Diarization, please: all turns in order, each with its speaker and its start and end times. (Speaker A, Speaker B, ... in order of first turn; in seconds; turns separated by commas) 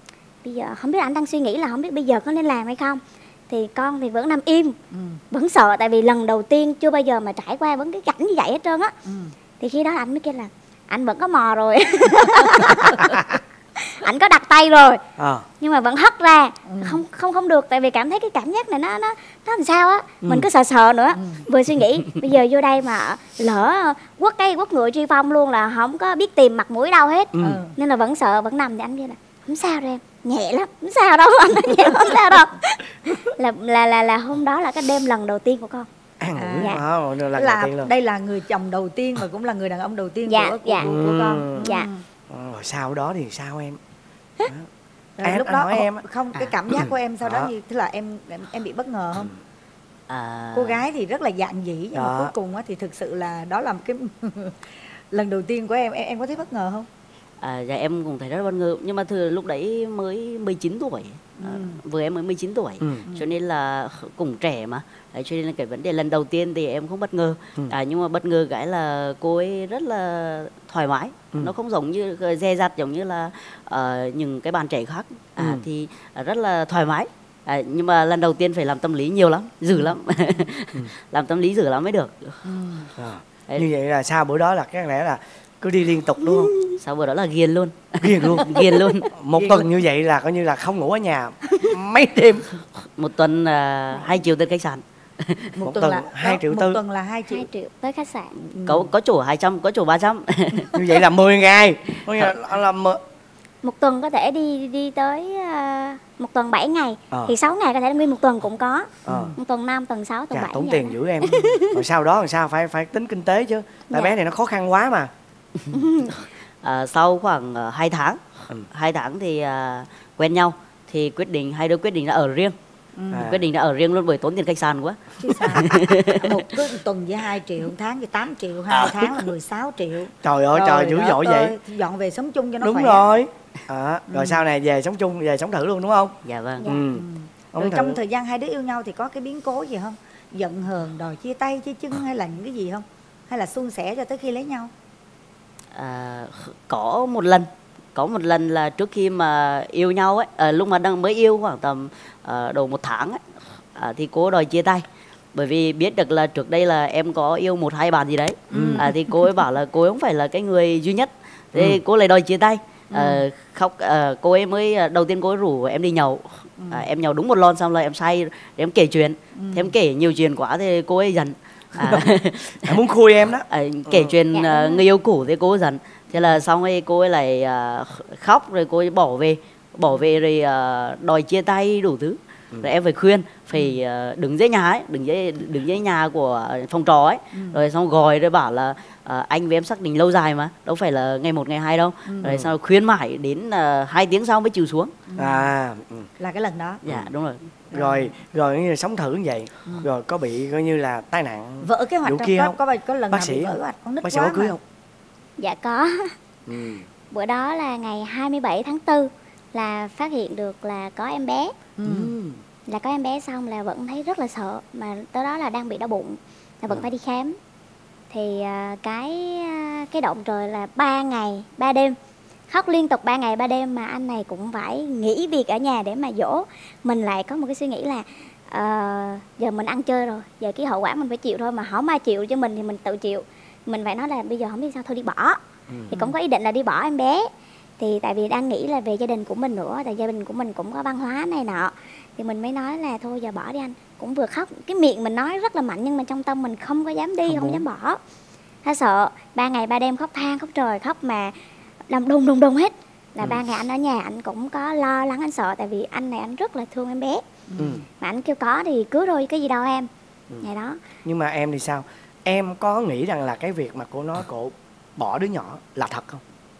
Speaker A: 0.4-4.8, Speaker B: 4.9-5.2, Speaker A: 5.3-8.9, Speaker B: 9.1-9.3, Speaker A: 9.6-13.1, Speaker C: 13.0-13.3, Speaker A: 13.8-15.0, Speaker C: 15.2-15.4, Speaker A: 15.6-35.9, Speaker B: 16.6-17.0, Speaker C: 20.2-20.5, Speaker B: 21.1-21.4, Speaker C: 27.4-27.6, Speaker B: 27.4-27.7, Speaker C: 36.2-37.9, Speaker B: 36.4-36.8, Speaker A: 36.6-36.9, Speaker B: 37.3-42.0, Speaker A: 40.3-41.0, Speaker C: 40.8-41.7, Speaker A: 41.6-41.9, Speaker C: 42.3-43.8, Speaker B: 45.2-49.3, Speaker C: 45.2-46.0, Speaker C: 47.2-47.5, Speaker D: 50.1-50.9, Speaker B: 50.5-54.6, Speaker C: 51.9-52.3, Speaker B: 55.1-56.9, Speaker D: 57.4-82.4, Speaker B: 61.4-61.8, Speaker C: 62.8-63.1, Speaker C: 75.4-75.7, Speaker B: 82.4-82.9, Speaker C: 83.0-86.5, Speaker A: 86.2-86.8, Speaker D: 86.8-89.1, Speaker C: 88.0-88.5, Speaker B: 88.5-88.8, Speaker C: 89.2-92.5, Speaker B: 89.4-89.7, Speaker D: 92.8-95.6, Speaker B: 95.6-97.5, Speaker C: 95.6-96.8, Speaker A: 97.3-98.3, Speaker B: 98.5-98.9, Speaker D: 98.6-100.8, Speaker C: 100.8-103.0, Speaker A: 103.6-111.8, Speaker C: 109.1-109.4, Speaker B: 109.1-109.3, Speaker C: 110.3-115.1, Speaker A: 113.9-114.2, Speaker A: 115.8-116.1, Speaker D: 116.6-122.6, Speaker B: 123.0-123.3, Speaker C: 123.1-123.4, Speaker D: 123.2-126.4, Speaker B: 125.2-133.1, Speaker C: 130.2-131.6, Speaker C: 132.6-138.0, Speaker B: 134.1-134.4, Speaker D: 136.2-136.6, Speaker A: 136.6-136.9, Speaker B: 136.9-144.7, Speaker D: 145.7-153.2, Speaker D: 153.8-172.8, Speaker B: 158.5-159.1, Speaker C: 158.5-158.9, Speaker B: 162.9-163.2, Speaker B: 166.6-166.9, Speaker B: 169.3-169.7, Speaker C: 171.8-172.1, Speaker C: 172.7-174.1, Speaker D: 173.5-194.9, Speaker A: 174.3-174.9, Speaker B: 187.3-187.6, Speaker B: 192.1-192.3, Speaker C: 192.2-192.5, Speaker B: 195.1-195.5, Speaker C: 195.2-196.1, Speaker B: 196.2-196.8, Speaker D: 196.8-197.4, Speaker C: 197.7-202.6, Speaker B: 197.8-198.1, Speaker B: 201.6-204.6, Speaker C: 203.1-204.6, Speaker A: 205.4-206.1, Speaker C: 206.5-206.8, Speaker A: 207.1-211.5, Speaker B: 211.8-212.1, Speaker C: 211.8-212.4, Speaker A: 212.7-217.4, Speaker A: 218.1-221.9, Speaker A: 222.5-235.4, Speaker C: 235.7-236.0, Speaker A: 235.9-237.3, Speaker A: 237.8-248.0, Speaker C: 247.3-247.6, Speaker A: 248.6-251.3, Speaker A: 251.9-257.2, Speaker B: 257.5-257.8, Speaker C: 257.6-257.9, Speaker A: 258.0-259.9, Speaker A: 260.4-260.8, Speaker C: 261.1-266.2